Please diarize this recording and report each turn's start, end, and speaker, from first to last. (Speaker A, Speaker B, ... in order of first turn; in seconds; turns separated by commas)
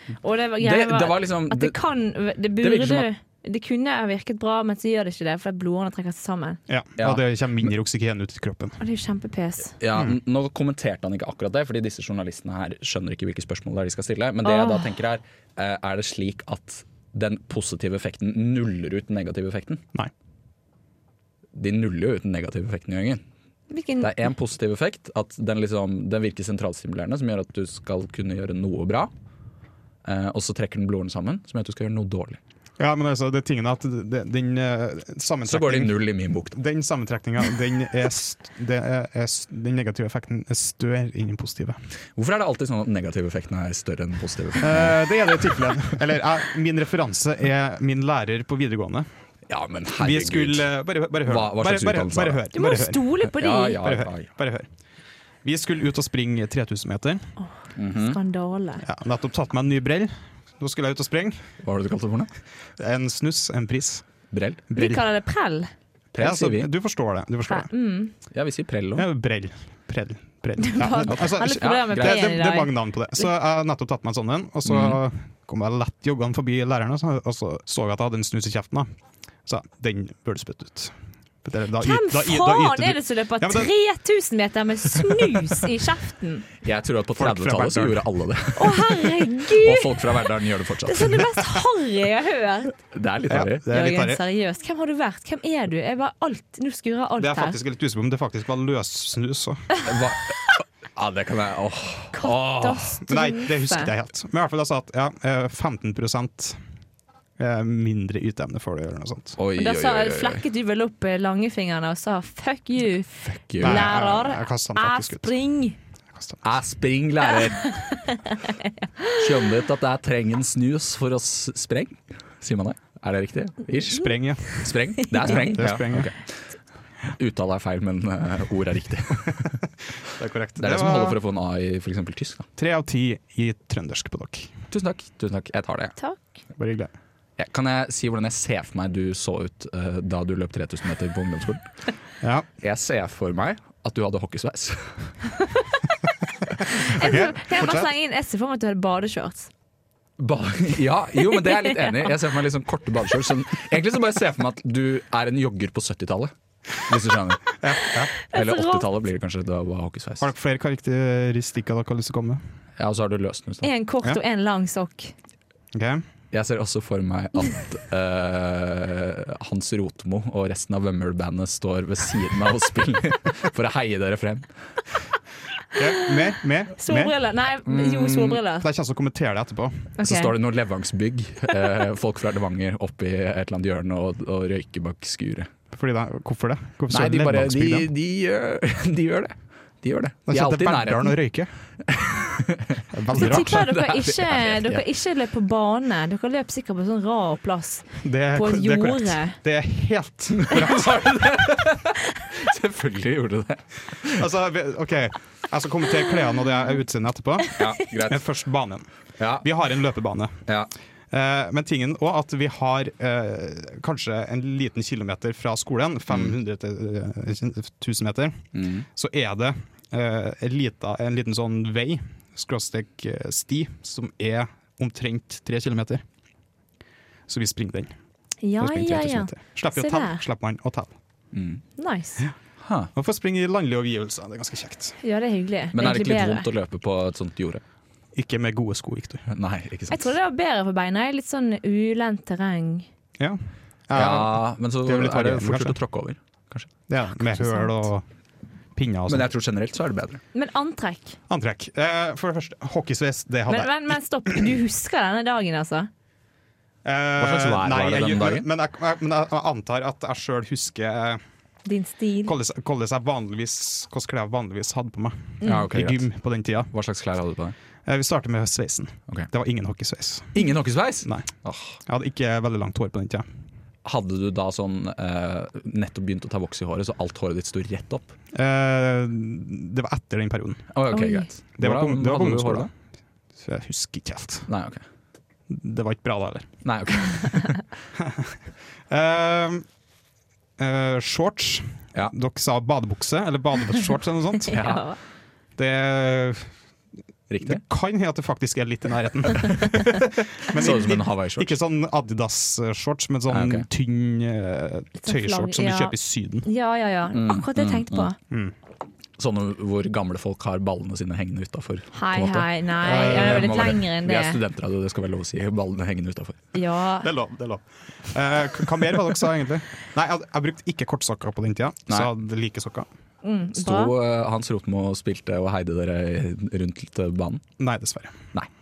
Speaker A: 0.2-6.6, Speaker B: 0.6-1.8, Speaker B: 2.6-3.1, Speaker C: 6.7-8.8, Speaker B: 7.0-7.2, Speaker A: 8.8-9.7, Speaker B: 9.8-19.8, Speaker A: 14.4-14.9, Speaker B: 21.5-23.2, Speaker A: 23.7-24.1, Speaker B: 24.0-29.1, Speaker B: 30.0-32.4, Speaker C: 32.8-41.8, Speaker B: 35.5-36.5, Speaker B: 42.1-45.0, Speaker C: 44.6-49.1, Speaker B: 49.5-50.7, Speaker C: 50.0-53.1, Speaker B: 51.2-52.5, Speaker A: 52.5-53.8, Speaker B: 53.2-54.3, Speaker C: 53.7-54.7, Speaker C: 55.4-57.3, Speaker A: 57.4-58.8, Speaker B: 57.8-58.2, Speaker C: 58.8-61.5, Speaker B: 61.6-62.3, Speaker C: 62.8-64.0, Speaker B: 64.3-64.7, Speaker C: 64.7-65.0, Speaker A: 64.7-65.7, Speaker B: 66.1-66.7, Speaker C: 66.2-67.7, Speaker A: 67.5-68.1, Speaker B: 68.3-69.1, Speaker C: 68.9-78.9, Speaker A: 70.6-72.7, Speaker B: 71.0-72.3, Speaker B: 74.6-75.0, Speaker C: 79.5-83.7, Speaker A: 81.8-86.5, Speaker B: 86.6-91.3, Speaker C: 87.2-88.0, Speaker A: 88.5-90.2, Speaker A: 90.8-92.7, Speaker B: 92.9-93.7, Speaker C: 93.3-94.2, Speaker A: 93.7-97.6, Speaker C: 97.2-99.7, Speaker B: 99.8-102.9, Speaker A: 102.1-103.9, Speaker C: 103.0-106.6, Speaker C: 107.4-109.4, Speaker B: 109.4-110.4, Speaker A: 109.6-115.8, Speaker B: 113.2-113.9, Speaker C: 113.6-115.3, Speaker C: 116.1-116.5, Speaker B: 116.4-118.0, Speaker A: 117.8-119.2, Speaker B: 119.1-126.5, Speaker C: 123.9-126.1, Speaker B: 127.1-129.6, Speaker C: 130.1-131.2, Speaker B: 130.6-132.5, Speaker C: 132.6-134.5, Speaker B: 134.7-136.0, Speaker C: 136.6-136.9, Speaker B: 137.4-141.7, Speaker C: 142.2-142.5, Speaker B: 142.6-145.2, Speaker C: 146.8-147.9, Speaker A: 146.8-149.5, Speaker B: 150.2-157.6, Speaker A: 151.5-151.9, Speaker C: 157.6-158.1, Speaker A: 158.3-158.8, Speaker B: 158.3-160.3, Speaker C: 160.2-162.4, Speaker B: 162.8-163.7, Speaker A: 163.6-165.1, Speaker C: 165.7-166.0, Speaker B: 166.3-175.0, Speaker C: 175.7-177.1, Speaker A: 176.8-178.7, Speaker B: 177.7-178.4, Speaker C: 178.6-180.0, Speaker A: 180.0-180.3, Speaker B: 180.0-185.5, Speaker C: 185.7-187.9, Speaker B: 186.9-191.2, Speaker C: 190.3-191.5, Speaker B: 191.8-194.8, Speaker C: 192.9-193.7, Speaker A: 193.1-199.4, Speaker C: 198.0-200.9, Speaker B: 200.4-204.2, Speaker C: 204.1-210.4, Speaker B: 207.6-208.3, Speaker B: 209.2-209.5, Speaker C: 211.1-226.0, Speaker B: 218.5-218.8, Speaker C: 227.3-227.9, Speaker A: 228.4-230.2, Speaker C: 228.6-230.9, Speaker B: 231.3-231.6, Speaker A: 231.8-232.2, Speaker B: 232.6-232.9, Speaker C: 232.9-235.0, Speaker A: 235.0-236.5, Speaker B: 235.7-237.6, Speaker C: 238.1-239.2, Speaker B: 239.3-240.1, Speaker A: 239.9-242.9, Speaker C: 243.2-245.8, Speaker B: 243.9-246.7, Speaker C: 246.9-248.1, Speaker A: 247.3-247.8, Speaker C: 248.7-249.3, Speaker B: 249.1-250.2, Speaker A: 250.3-251.2, Speaker C: 251.3-253.7, Speaker A: 253.5-255.9, Speaker C: 256.8-261.2, Speaker B: 257.2-258.5, Speaker A: 261.6-262.3, Speaker C: 262.2-266.7, Speaker A: 265.4-265.7, Speaker B: 265.4-266.1, Speaker B: 266.7-267.6, Speaker C: 267.8-270.5, Speaker B: 270.3-271.8, Speaker C: 271.9-273.3, Speaker B: 273.8-278.1, Speaker C: 278.3-280.7, Speaker B: 280.7-282.7, Speaker A: 280.9-281.3, Speaker C: 281.6-282.7, Speaker C: 283.4-284.5, Speaker B: 284.5-284.8, Speaker C: 285.5-286.6, Speaker B: 286.6-287.6, Speaker C: 288.0-288.4, Speaker C: 288.9-289.6, Speaker C: 290.6-294.7, Speaker A: 294.5-295.0, Speaker B: 294.5-294.8, Speaker C: 295.6-296.5, Speaker B: 297.3-297.6, Speaker C: 297.4-306.5, Speaker B: 300.5-301.6, Speaker B: 303.3-303.6, Speaker A: 305.0-308.1, Speaker B: 307.1-308.1, Speaker B: 309.2-316.4, Speaker A: 311.9-314.4, Speaker C: 312.8-313.8, Speaker A: 316.5-317.1, Speaker C: 317.0-322.9, Speaker A: 323.2-323.9, Speaker B: 323.5-327.4, Speaker C: 327.6-328.3